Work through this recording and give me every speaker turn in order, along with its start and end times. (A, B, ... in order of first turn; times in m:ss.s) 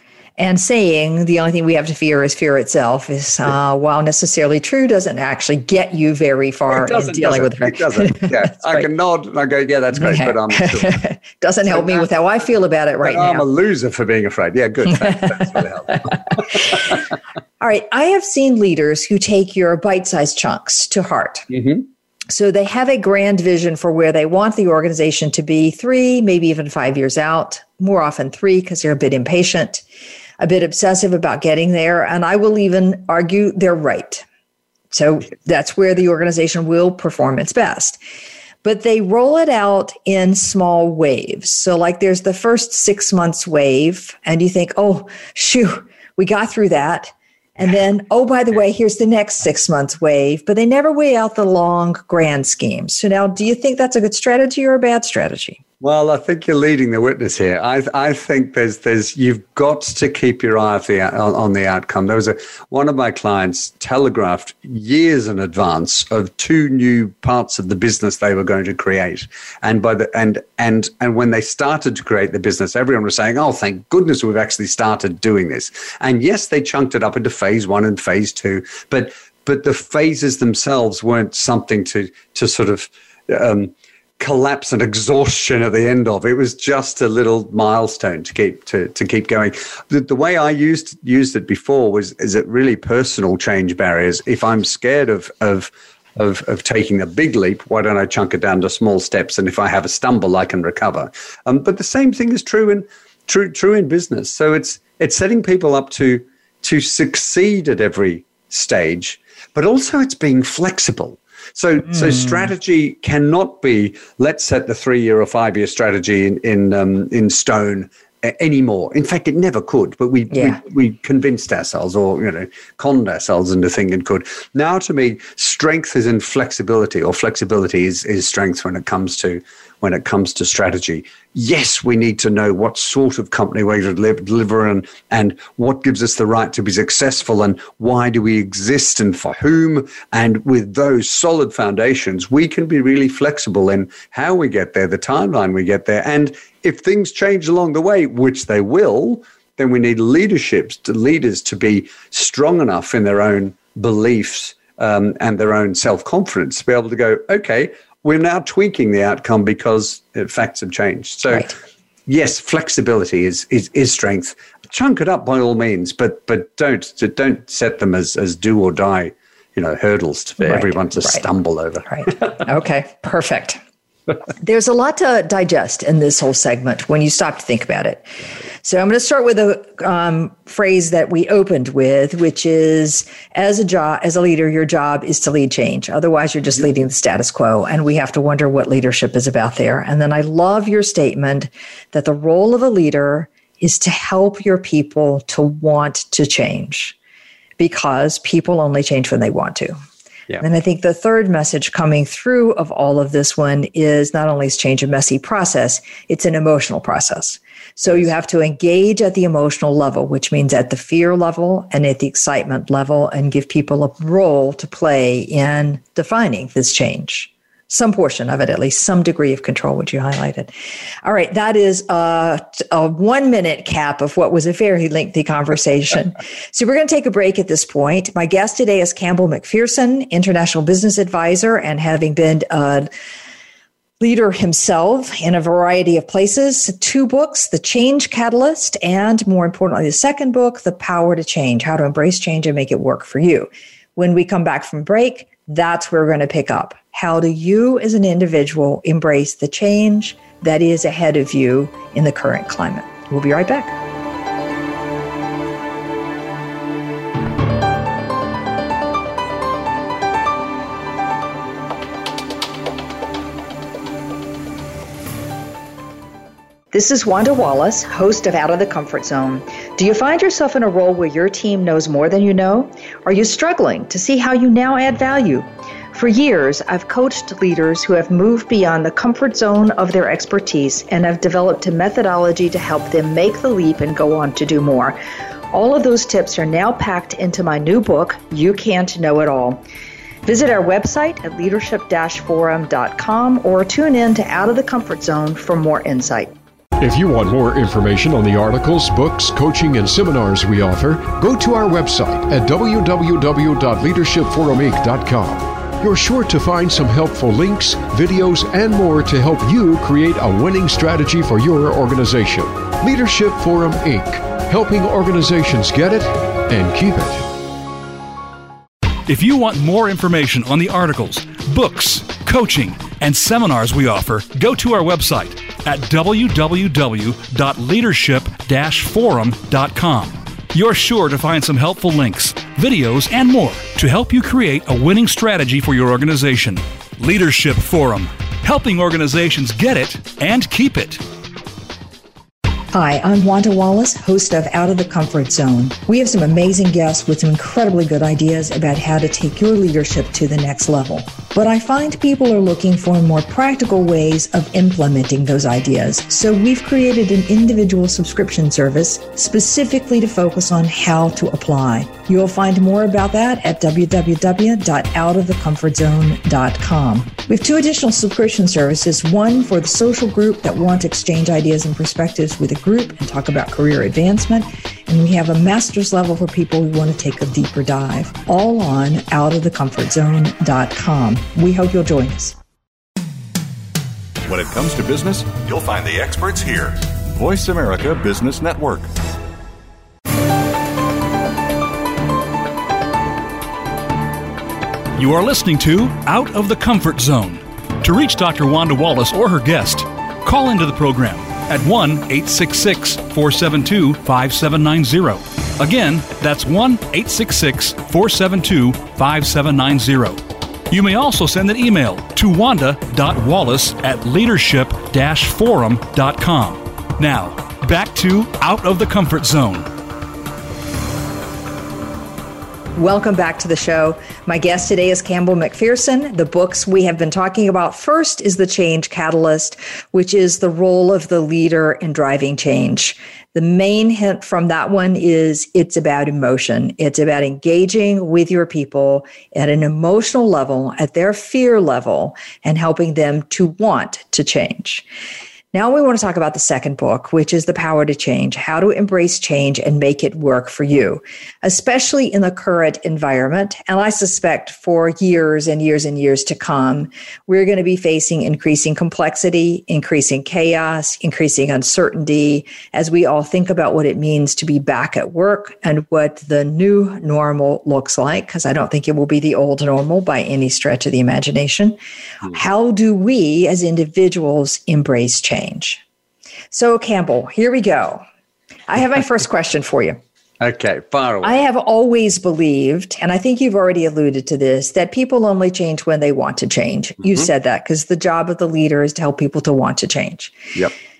0:00.4-0:08.8 A
0:06.7-0:11.0 B
0:09.9-0:13.4 A
0:11.6-0:12.1 B
0:13.0-0:16.8 B
0:17.6-0:21.5 A
0:21.5-0:21.8 B
0:22.3-0:29.8 A
0:30.4-0:34.2 A
0:34.9-0:38.0 A
0:38.6-0:55.6 A
0:55.8-2:41.5 B
2:00.3-2:00.6 A
2:42.1-2:52.3 B
2:50.4-2:51.2 A
2:51.9-2:53.6 A
2:54.4-3:17.0 A
3:17.6-3:19.7 A
3:20.4-3:40.5 A
3:41.0-3:52.9 A
3:54.0-4:13.8 A
4:26.7-4:45.0 A
4:45.5-4:49.6 A
4:50.2-4:56.3 A
4:56.8-5:17.3 C
5:19.1-5:41.0 D
5:42.7-6:22.4 A
6:24.2-6:28.9 E
6:35.0-6:59.7 D
7:02.8-7:24.8 A
7:25.5-7:51.8 A
7:52.3-7:55.8 A
7:56.5-7:58.0 A
7:58.7-8:00.0 A
8:00.4-8:01.4 B
8:01.2-8:10.4 A